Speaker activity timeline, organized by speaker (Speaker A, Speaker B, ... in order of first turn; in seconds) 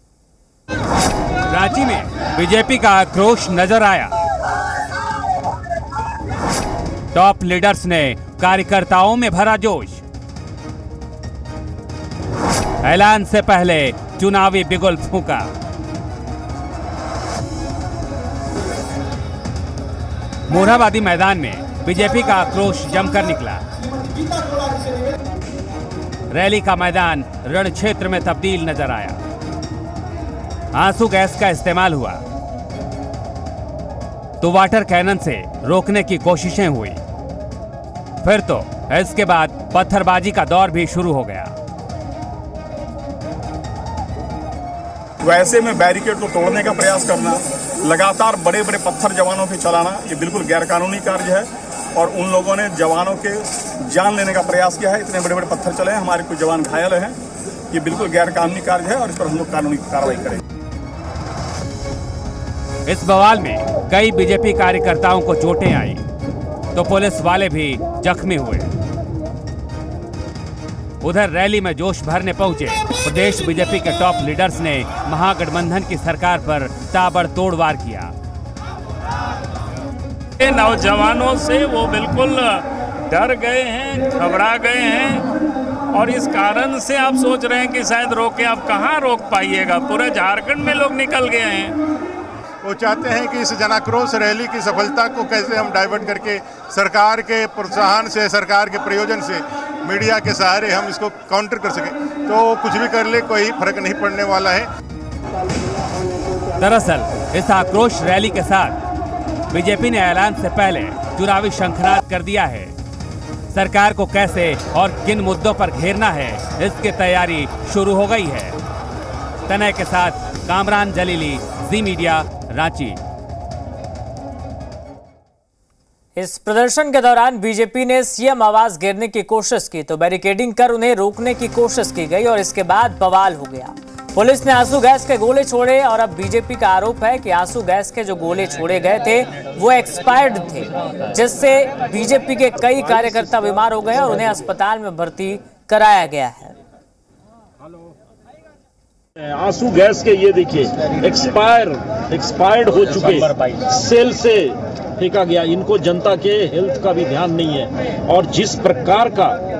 Speaker A: 2.3-4.1, 7.1-10.0, 12.8-15.4, 20.5-23.6, 26.3-29.2, 30.7-32.2, 34.4-37.0, 38.2-41.5, 62.9-66.0, 66.7-68.7, 71.0-78.1, 106.6-108.8, 109.5-112.7, 113.5-118.6, 119.5-123.0
Speaker B: 45.2-57.2, 57.7-60.4
Speaker C: 80.4-85.2, 85.9-91.7
Speaker D: 92.6-104.7
Speaker E: 126.2-146.6
Speaker F: 149.2-159.4